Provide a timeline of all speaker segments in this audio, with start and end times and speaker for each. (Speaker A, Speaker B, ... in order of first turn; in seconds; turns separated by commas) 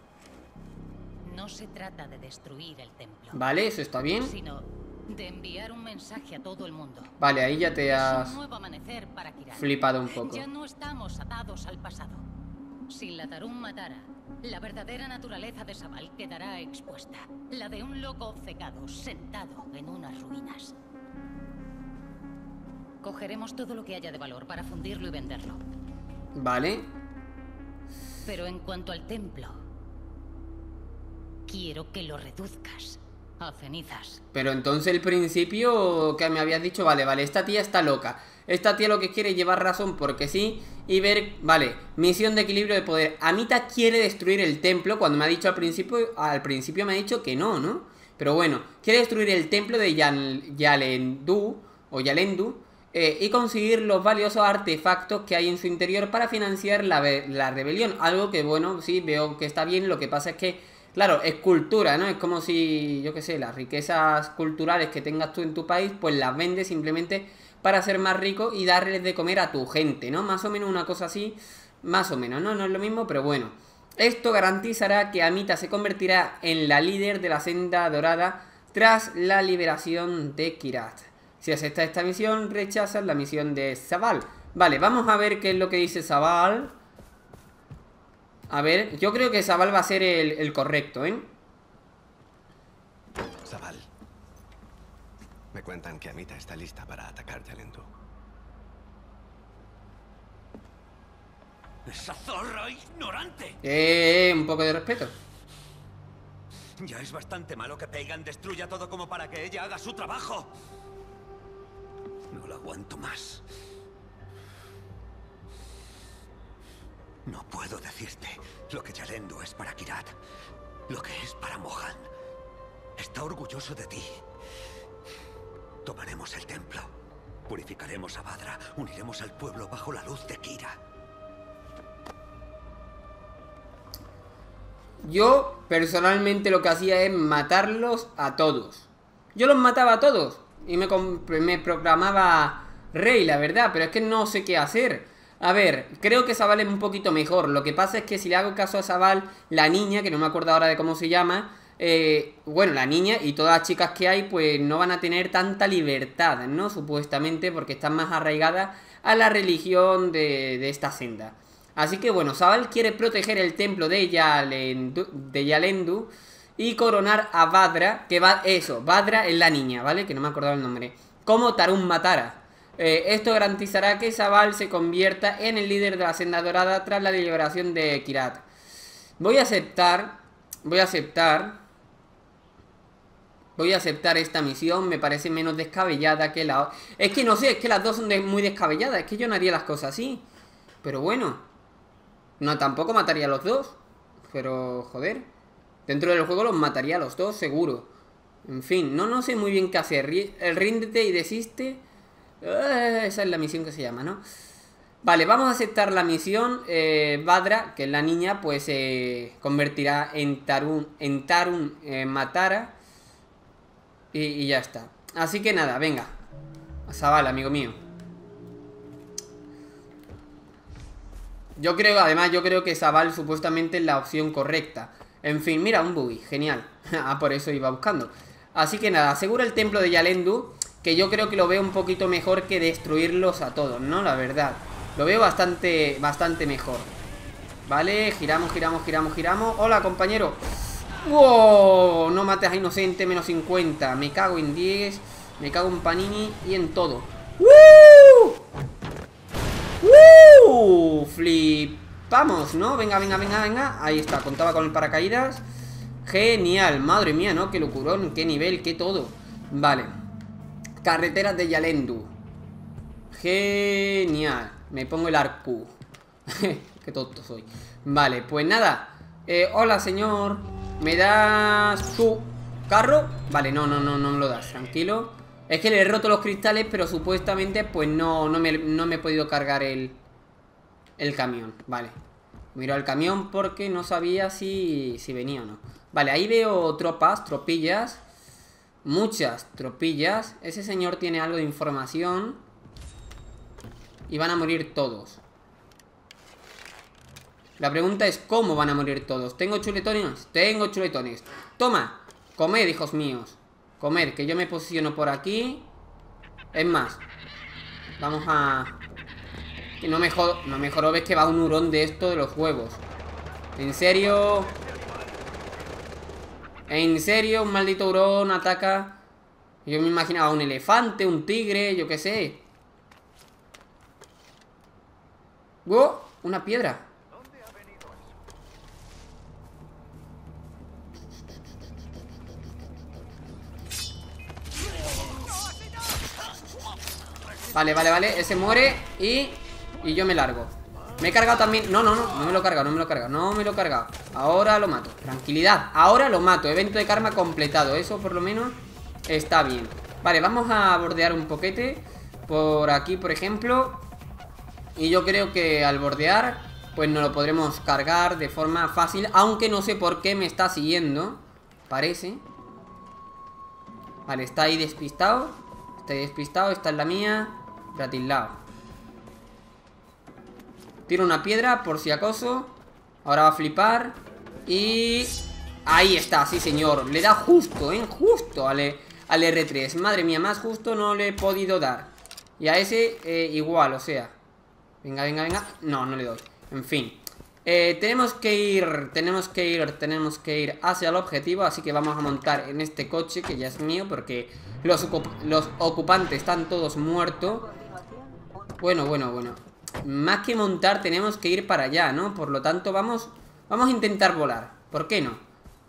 Speaker A: 1.2-3.4, Speaker B: 3.3-4.3, Speaker A: 4.2-7.1, Speaker B: 7.2-8.3, Speaker A: 7.8-12.2, Speaker B: 9.5-10.4, Speaker A: 12.9-20.8, Speaker A: 23.0-25.6, Speaker B: 26.3-26.9, Speaker A: 28.2-29.6, Speaker A: 31.5-34.2, Speaker B: 34.3-86.8, Speaker B: 88.5-91.3, Speaker C: 93.4-93.9, Speaker C: 95.5-97.9, Speaker D: 101.8-103.6, Speaker B: 103.6-105.1, Speaker D: 106.8-110.5, Speaker D: 112.3-113.4, Speaker D: 117.2-120.1, Speaker D: 120.9-122.1, Speaker D: 123.0-124.2, Speaker D: 125.8-126.9, Speaker D: 127.5-130.8, Speaker B: 135.0-178.4, Speaker B: 179.2-181.6, Speaker B: 183.6-190.2, Speaker B: 190.8-191.4, Speaker B: 192.4-195.3, Speaker B: 195.8-197.9, Speaker B: 198.4-201.8, Speaker B: 202.4-204.2, Speaker B: 205.0-212.8, Speaker B: 214.1-216.1, Speaker B: 216.9-217.8, Speaker B: 221.6-236.9, Speaker B: 237.7-240.4, Speaker B: 241.0-248.4, Speaker B: 249.8-255.4, Speaker B: 256.0-259.9, Speaker B: 260.8-262.1, Speaker B: 263.1-265.8, Speaker B: 266.3-280.0, Speaker B: 281.0-281.9, Speaker B: 282.5-288.0, Speaker B: 288.8-292.4, Speaker B: 294.1-295.2, Speaker B: 297.6-305.7, Speaker B: 306.5-307.0, Speaker B: 308.0-308.8, Speaker B: 309.8-312.8, Speaker B: 313.6-314.5, Speaker B: 316.7-319.0, Speaker B: 319.6-322.4, Speaker B: 325.6-326.9, Speaker B: 337.5-353.9, Speaker B: 354.8-362.2, Speaker B: 364.1-368.4, Speaker B: 370.9-384.1, Speaker B: 384.8-397.6, Speaker B: 398.6-405.2